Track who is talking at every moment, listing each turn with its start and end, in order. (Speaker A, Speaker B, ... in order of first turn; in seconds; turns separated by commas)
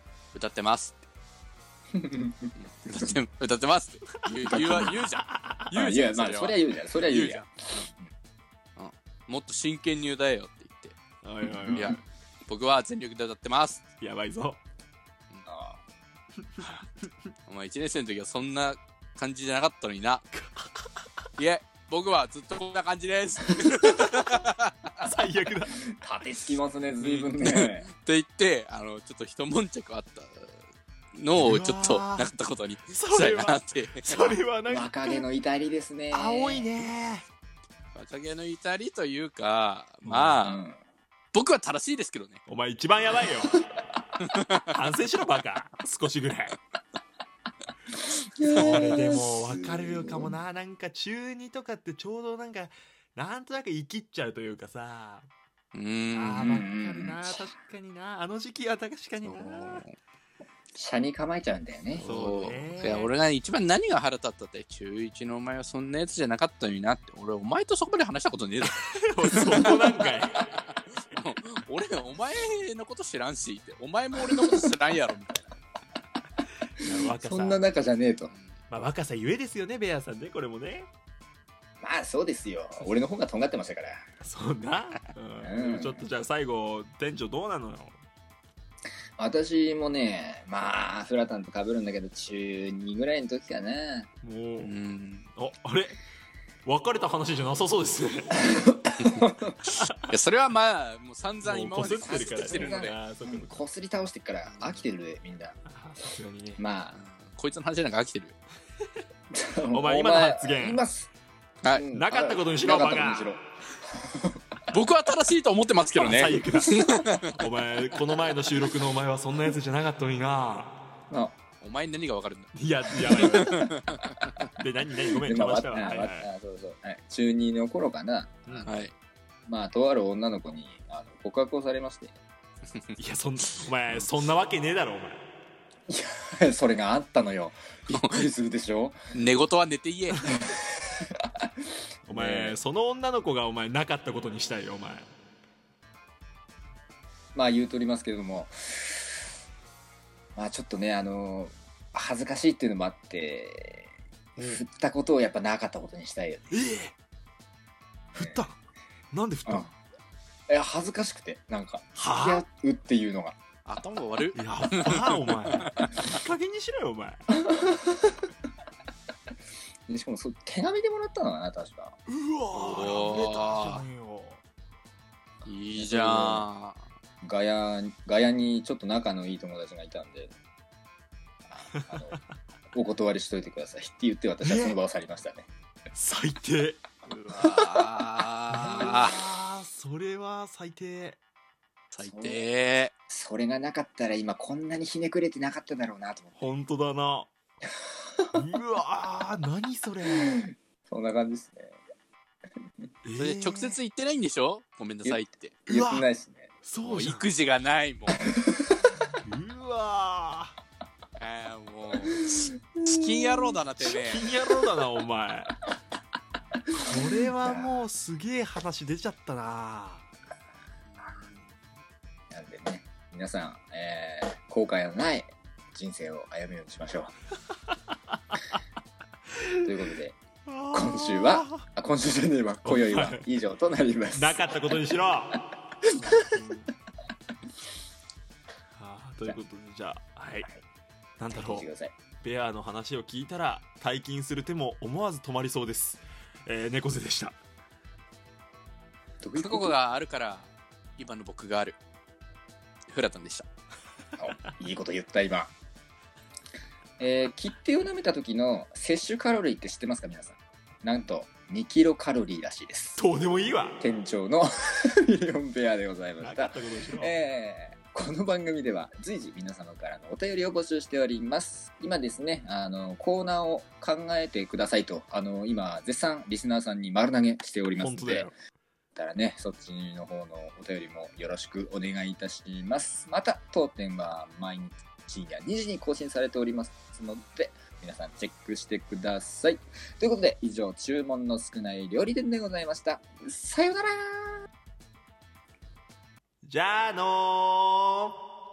Speaker A: 0.3-1.0, Speaker B: 1.9-2.5, Speaker A: 2.6-7.9, Speaker C: 4.3-5.7, Speaker B: 4.5-4.9, Speaker B: 5.7-8.1, Speaker A: 8.8-10.9, Speaker C: 11.2-12.0, Speaker B: 11.4-11.8, Speaker A: 11.7-13.8, Speaker C: 14.0-14.6, Speaker B: 15.4-15.8, Speaker C: 16.5-17.0, Speaker A: 17.4-20.2, Speaker C: 20.3-20.9, Speaker A: 21.4-24.7, Speaker C: 23.8-24.2, Speaker C: 25.0-25.7, Speaker B: 25.8-27.9, Speaker A: 27.0-30.6, Speaker A: 31.1-34.4, Speaker C: 31.3-32.3, Speaker C: 32.9-35.2, Speaker B: 34.7-36.8, Speaker C: 36.1-37.2, Speaker A: 37.9-40.6, Speaker C: 40.0-40.4, Speaker B: 40.4-40.8, Speaker A: 41.3-42.4, Speaker C: 42.5-43.6, Speaker C: 44.7-46.5, Speaker B: 48.4-50.4, Speaker A: 48.5-48.8, Speaker C: 48.5-55.3, Speaker A: 55.7-56.5, Speaker C: 56.1-59.9, Speaker B: 56.4-57.5, Speaker A: 59.2-59.9, Speaker B: 60.8-62.1, Speaker A: 61.9-70.1, Speaker C: 62.0-63.1, Speaker C: 68.6-70.4, Speaker A: 71.1-75.4, Speaker B: 74.4-74.7, Speaker C: 76.8-77.7, Speaker B: 76.8-78.3, Speaker A: 78.3-78.6, Speaker C: 78.7-80.9, Speaker B: 81.8-84.0, Speaker C: 84.2-88.0, Speaker B: 85.4-86.0, Speaker B: 89.2-94.1, Speaker C: 94.2-94.7, Speaker A: 94.6-95.3, Speaker C: 95.3-96.0, Speaker C: 96.6-98.4, Speaker B: 98.4-99.6, Speaker C: 99.8-100.1, Speaker A: 100.1-103.0, Speaker C: 101.4-103.6, Speaker B: 101.8-105.6, Speaker A: 104.4-104.8, Speaker C: 105.7-106.6, Speaker B: 106.6-107.0, Speaker A: 106.9-108.4, Speaker B: 109.3-111.1, Speaker C: 109.7-110.8, Speaker B: 111.7-113.4, Speaker C: 111.9-113.4, Speaker B: 114.0-114.4, Speaker A: 114.7-117.2, Speaker C: 115.9-120.9, Speaker B: 121.1-121.3, Speaker A: 121.6-124.3, Speaker C: 122.5-123.6, Speaker C: 124.6-126.3, Speaker B: 125.2-128.7, Speaker C: 128.4-128.8, Speaker A: 128.6-128.9, Speaker B: 129.5-132.1, Speaker C: 133.0-135.2, Speaker B: 135.9-139.0, Speaker A: 137.9-138.2, Speaker A: 139.1-140.2, Speaker C: 140.1-140.4, Speaker B: 140.6-141.5, Speaker C: 142.1-145.1, Speaker B: 142.1-142.6, Speaker B: 147.3-149.2, Speaker B: 150.3-156.5, Speaker C: 156.5-156.9, Speaker C: 158.1-158.6, Speaker B: 158.2-158.4, Speaker C: 159.1-159.7, Speaker B: 160.5-163.3, Speaker C: 161.9-162.4, Speaker A: 163.6-166.1, Speaker C: 164.3-167.2, Speaker B: 167.3-168.2, Speaker B: 169.9-172.0, Speaker C: 172.1-174.4, Speaker A: 172.5-173.8, Speaker A: 175.4-176.8, Speaker B: 175.7-176.5, Speaker B: 177.2-180.3, Speaker B: 181.5-182.2, Speaker C: 181.7-182.2, Speaker B: 182.7-185.5, Speaker C: 184.4-184.8, Speaker C: 185.9-186.8, Speaker A: 187.1-189.1, Speaker B: 187.3-187.8, Speaker C: 188.5-191.2, Speaker A: 191.9-192.9, Speaker B: 192.0-192.4, Speaker B: 193.1-196.5, Speaker C: 196.4-197.3, Speaker C: 198.3-200.4, Speaker B: 200.1-201.7, Speaker C: 203.0-203.8, Speaker A: 203.2-205.5, Speaker B: 205.0-206.5, Speaker C: 205.7-206.1, Speaker C: 206.6-207.3, Speaker A: 206.8-208.2, Speaker B: 208.2-208.8, Speaker C: 209.2-210.5, Speaker A: 211.2-214.2, Speaker B: 212.1-212.9, Speaker C: 213.3-215.5, Speaker C: 216.7-220.1, Speaker B: 217.2-217.8, Speaker A: 220.9-221.4, Speaker B: 222.3-227.1, Speaker C: 229.4-229.6, Speaker B: 229.6-230.2, Speaker C: 230.4-231.6, Speaker B: 230.7-234.8, Speaker C: 232.6-233.2, Speaker C: 234.1-236.7, Speaker B: 235.3-236.4, Speaker C: 238.7-240.5, Speaker C: 241.2-241.7, Speaker B: 241.3-241.9, Speaker C: 242.2-247.4, Speaker B: 249.2-249.8, Speaker A: 249.3-251.8, Speaker A: 252.9-253.5, Speaker B: 254.2-255.5, Speaker B: 257.0-263.0, Speaker C: 262.9-263.8, Speaker B: 263.8-278.3, Speaker C: 266.2-267.1, Speaker C: 277.7-278.3, Speaker B: 278.9-294.5, Speaker C: 296.4-298.1